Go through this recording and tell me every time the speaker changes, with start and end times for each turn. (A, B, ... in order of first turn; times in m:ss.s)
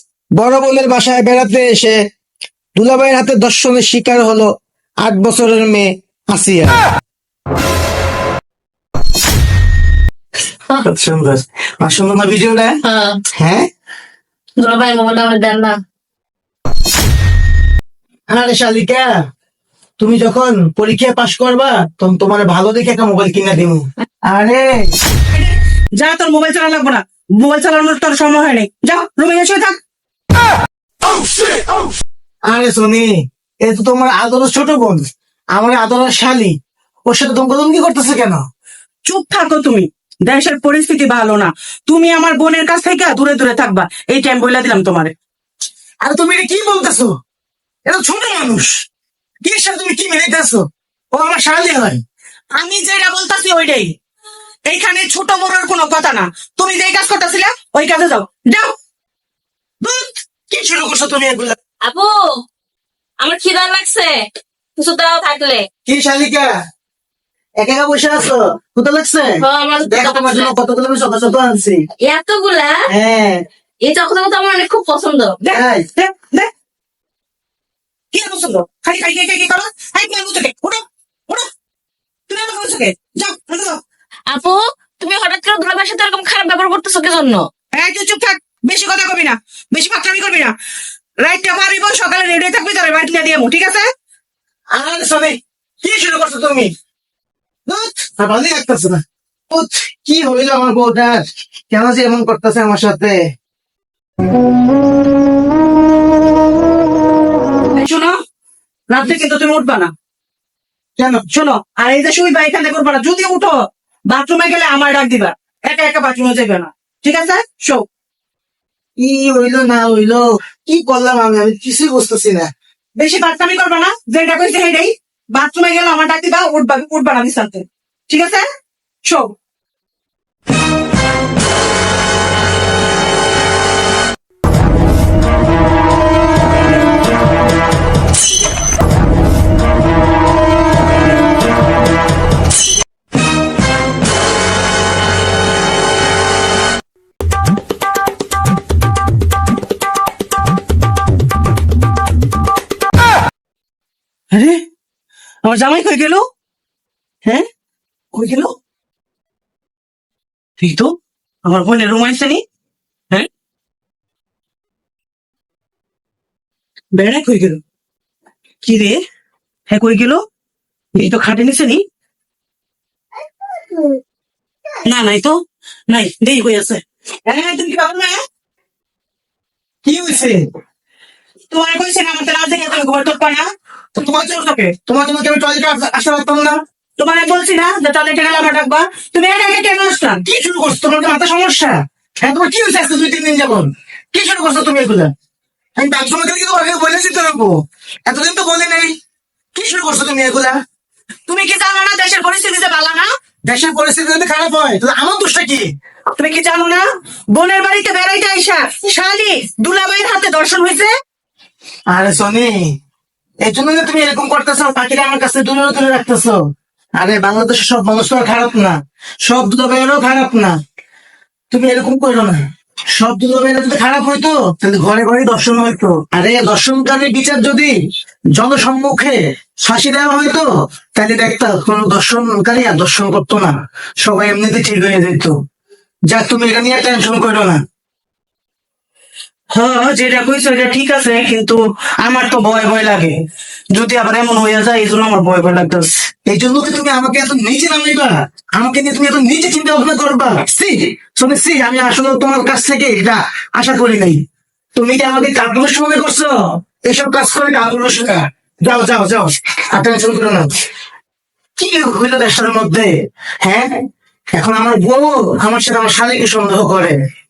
0:00.4-0:02.0 A
0:02.8-0:04.5 A
0:05.0-0:06.8 A
0:10.8-0:12.8 A
0:12.8-0:13.2 B
0:13.3-0:13.6 A
0:14.6-0:15.8 B
0:18.3-0:19.2 A
0:20.0-0:24.9 A
0:25.3-0:29.8 C
0:32.5-0:33.1 A
0:33.6-0:36.6 A
0:37.1-0:38.4 A
0:39.0-0:45.1 C
0:46.0-0:47.1 A
0:47.8-0:48.7 A
0:49.4-0:52.0 A
0:52.6-0:53.9 C
0:54.7-0:58.7 C
0:59.8-1:01.6 A
1:01.8-1:02.1 B
1:03.2-1:04.2 B
1:04.8-1:05.6 B
1:05.8-1:06.5 A
1:07.6-1:11.8 A
1:09.4-1:10.5 B
1:12.0-1:12.8 B
1:12.9-1:13.4 A
1:13.8-1:15.4 B
1:15.4-1:16.5 C
1:15.5-1:15.9 A
1:18.1-1:21.5 C
1:22.3-1:23.8 C
1:24.3-1:27.5 B
1:27.7-1:30.5 C
1:31.2-1:33.9 C
1:34.8-1:36.7 A
1:37.7-1:43.2 A
1:47.7-1:48.2 C
1:48.9-1:49.9 C
1:51.0-1:51.2 A
1:51.3-1:53.6 C
1:54.1-1:57.8 C
1:59.0-2:02.5 A
2:03.0-2:08.4 C
2:09.0-2:09.3 C
2:34.3-2:34.6 C
2:35.4-2:36.2 C
2:38.1-2:38.5 C
2:40.6-2:42.4 C
2:46.9-2:47.6 C
2:48.6-2:49.0 C
2:49.7-2:50.2 C
2:50.9-2:51.8 C
2:54.8-2:58.2 C
2:59.8-3:00.4 C
3:01.5-3:04.7 C
3:04.9-3:06.6 A
3:07.0-3:10.2 C
3:10.2-3:15.1 A
3:15.8-3:17.5 A
3:18.1-3:18.9 A
3:19.5-3:20.6 A
3:21.3-3:23.1 C
3:23.4-3:25.6 A
3:26.1-3:30.9 C
3:31.9-3:32.7 A
3:33.4-3:36.4 A
3:37.0-3:40.6 A
3:41.5-3:42.4 A
3:43.0-3:47.7 A
3:48.4-3:55.4 A
3:56.1-3:57.6 A
3:59.5-4:03.2 C
4:03.7-4:05.9 C
4:06.3-4:14.2 A
4:14.8-4:20.5 A
4:21.6-4:22.9 A
4:23.4-4:23.8 A
4:24.3-4:27.0 A